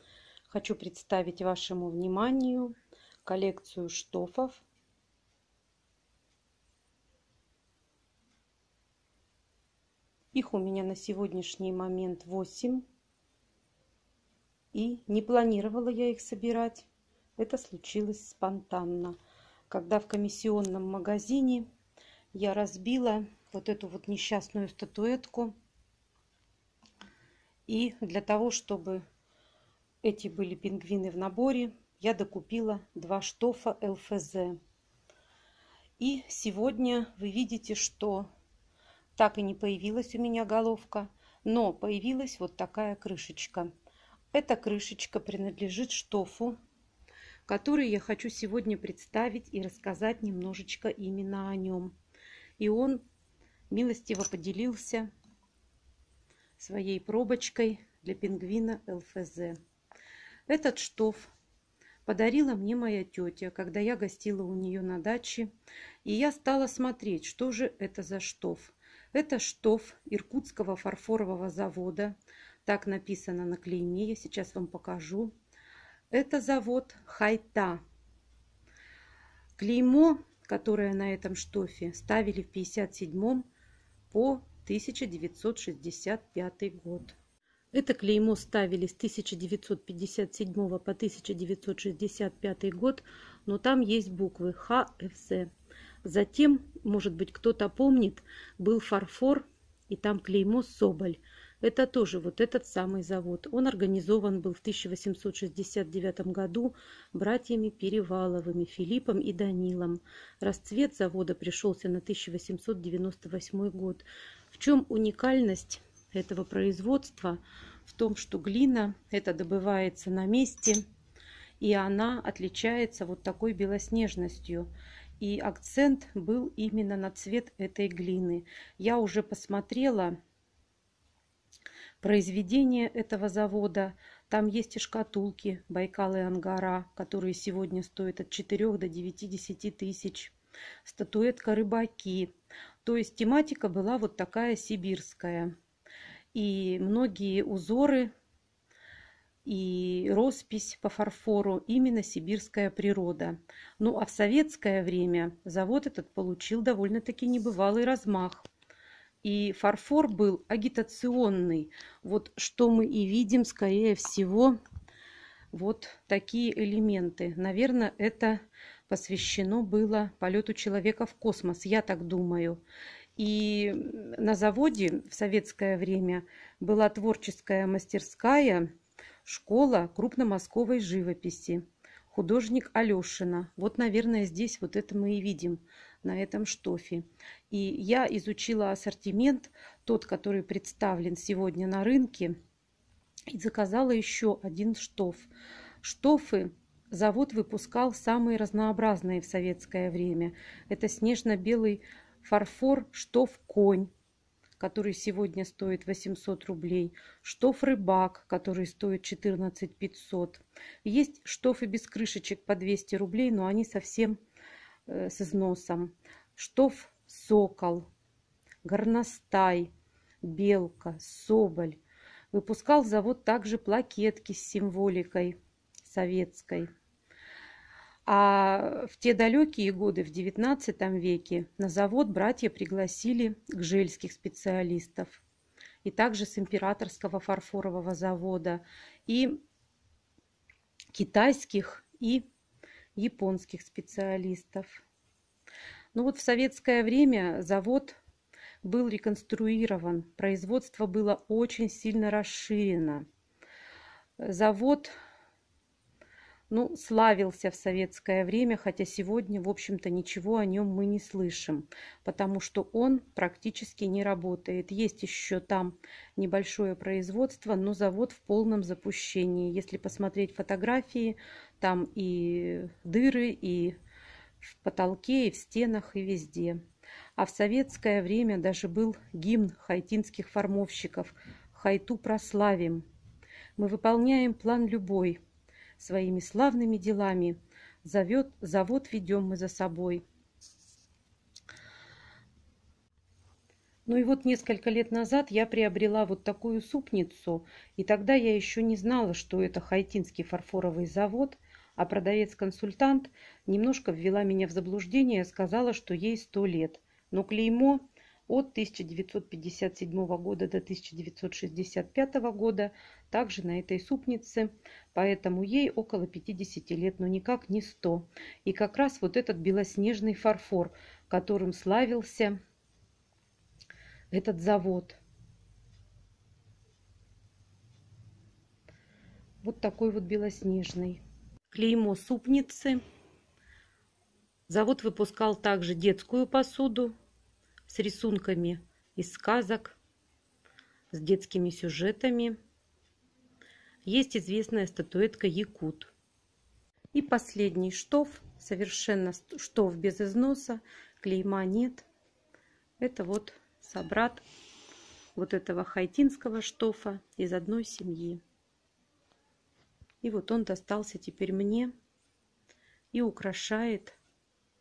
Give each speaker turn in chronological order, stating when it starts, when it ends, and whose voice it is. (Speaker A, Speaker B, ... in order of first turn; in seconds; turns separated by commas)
Speaker A: 0.5-4.6, Speaker A: 10.3-12.8, Speaker A: 14.7-19.1, Speaker A: 19.7-21.6, Speaker A: 22.3-25.5, Speaker A: 27.7-29.0, Speaker A: 30.0-34.6, Speaker A: 36.0-38.3, Speaker A: 39.1-43.7, Speaker A: 44.3-46.5, Speaker A: 47.5-51.9, Speaker A: 52.6-53.0, Speaker A: 53.7-55.1, Speaker A: 56.6-59.6, Speaker A: 60.5-61.3, Speaker A: 62.0-65.5, Speaker A: 66.0-75.3, Speaker A: 76.1-77.8, Speaker A: 79.6-83.4, Speaker A: 84.1-87.2, Speaker A: 87.7-95.5, Speaker A: 96.0-120.8, Speaker A: 121.6-124.7, Speaker A: 125.2-130.2, Speaker A: 132.0-140.3, Speaker A: 140.8-142.3, Speaker A: 142.8-145.5, Speaker A: 146.3-148.1, Speaker A: 149.4-158.5, Speaker A: 159.2-164.6, Speaker A: 165.5-172.6, Speaker A: 173.2-178.7, Speaker A: 179.2-192.4, Speaker A: 193.3-195.3, Speaker A: 195.8-203.9, Speaker A: 204.6-214.2, Speaker A: 214.9-217.9, Speaker A: 218.6-219.7, Speaker A: 220.2-221.8, Speaker A: 222.3-226.7, Speaker A: 228.1-235.2, Speaker A: 235.8-239.4, Speaker A: 240.9-242.2, Speaker A: 242.9-244.8, Speaker A: 245.9-248.0, Speaker A: 248.6-253.0, Speaker A: 254.2-254.9, Speaker A: 256.5-273.7, Speaker A: 274.4-276.6, Speaker A: 277.2-282.8, Speaker A: 283.6-285.2, Speaker A: 285.8-290.0, Speaker A: 293.9-322.4, Speaker A: 324.1-325.0, Speaker A: 329.4-332.8, Speaker A: 334.5-336.9, Speaker A: 337.7-339.8, Speaker A: 340.9-342.4, Speaker A: 343.8-345.9, Speaker A: 346.9-351.9, Speaker A: 352.8-354.2, Speaker A: 355.1-358.2, Speaker A: 360.0-361.7, Speaker A: 362.9-364.0